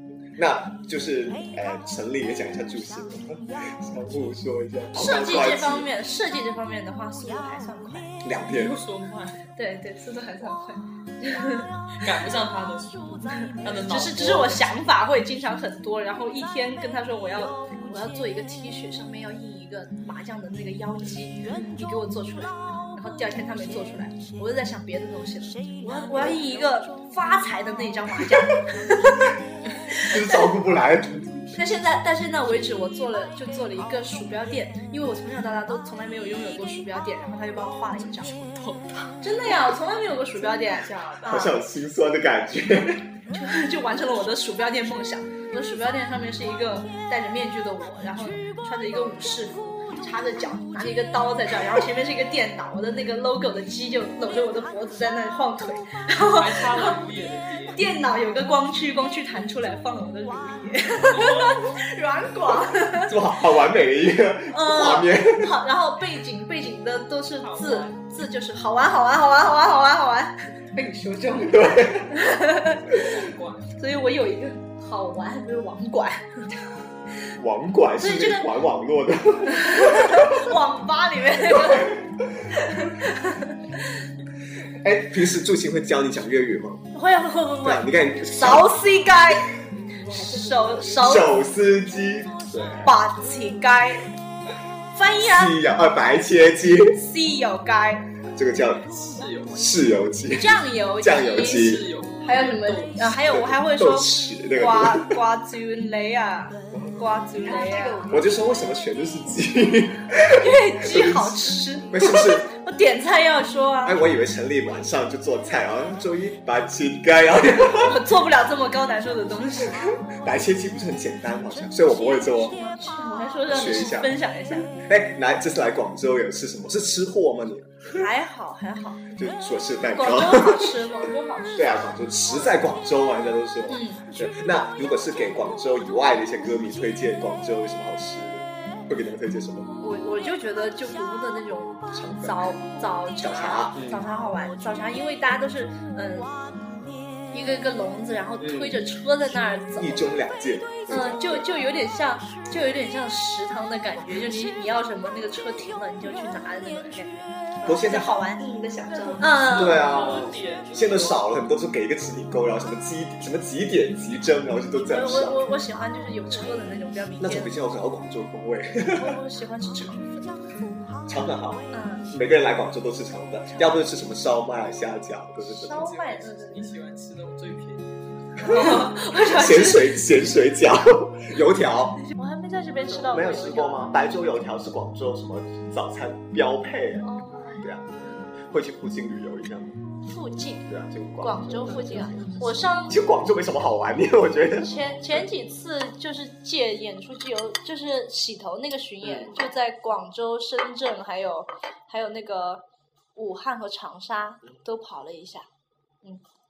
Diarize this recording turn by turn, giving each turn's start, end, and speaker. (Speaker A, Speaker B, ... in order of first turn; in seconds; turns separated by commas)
Speaker A: 0.4-5.9, Speaker B: 4.9-8.2, Speaker A: 8.2-8.8, Speaker C: 8.5-9.4, Speaker B: 9.6-11.7, Speaker C: 12.0-14.7, Speaker B: 13.9-30.5, Speaker A: 30.0-31.5, Speaker B: 31.5-38.3, Speaker C: 38.0-39.2, Speaker B: 39.2-41.6, Speaker C: 40.4-41.5, Speaker A: 41.3-43.0, Speaker B: 43.3-57.0, Speaker C: 56.2-57.8, Speaker B: 57.7-63.2, Speaker C: 61.1-61.6, Speaker A: 63.1-65.5, Speaker B: 64.5-70.3, Speaker C: 67.4-68.1, Speaker D: 70.7-72.0, Speaker A: 71.5-72.2, Speaker B: 72.1-73.1, Speaker C: 72.9-73.7, Speaker B: 73.8-76.5, Speaker A: 77.4-80.5, Speaker B: 78.0-78.5, Speaker B: 79.5-83.6, Speaker A: 81.6-81.9, Speaker A: 84.8-86.8, Speaker B: 86.9-89.5, Speaker A: 87.6-88.7, Speaker D: 89.8-91.4, Speaker B: 90.1-91.4, Speaker A: 91.0-92.9, Speaker B: 92.8-94.1, Speaker B: 94.9-95.6, Speaker A: 95.2-97.0, Speaker B: 96.9-98.1, Speaker A: 98.3-98.8, Speaker C: 98.8-99.7, Speaker A: 99.5-101.8, Speaker B: 100.3-108.0, Speaker C: 101.2-103.1, Speaker A: 103.2-105.1, Speaker D: 107.4-108.6, Speaker A: 108.1-112.5, Speaker B: 110.3-114.0, Speaker A: 113.8-118.0, Speaker B: 117.7-119.9, Speaker A: 120.1-122.6, Speaker B: 121.9-124.8, Speaker A: 123.5-124.2, Speaker A: 124.9-128.1, Speaker B: 127.9-129.1, Speaker A: 129.2-130.8, Speaker B: 129.9-131.9, Speaker A: 131.6-139.7, Speaker B: 133.7-134.1, Speaker B: 139.8-146.3, Speaker A: 141.9-142.4, Speaker A: 143.2-144.0, Speaker B: 147.3-150.1, Speaker A: 148.4-148.8, Speaker A: 149.8-151.5, Speaker B: 150.9-158.4, Speaker A: 157.7-158.2, Speaker D: 158.4-159.5, Speaker C: 158.8-161.2, Speaker B: 159.2-160.0, Speaker A: 159.5-165.4, Speaker B: 164.8-167.6, Speaker A: 167.2-169.2, Speaker B: 168.9-170.3, Speaker A: 171.1-175.9, Speaker B: 171.7-172.1, Speaker B: 175.6-176.7, Speaker C: 175.7-177.9, Speaker B: 178.4-180.0, Speaker A: 178.4-182.0, Speaker B: 182.1-183.9, Speaker A: 183.1-189.8, Speaker B: 187.0-187.7, Speaker B: 190.1-190.7, Speaker A: 190.7-192.1, Speaker B: 191.2-193.0, Speaker A: 192.9-194.7, Speaker B: 194.6-202.6, Speaker A: 199.0-199.4, Speaker B: 203.2-205.5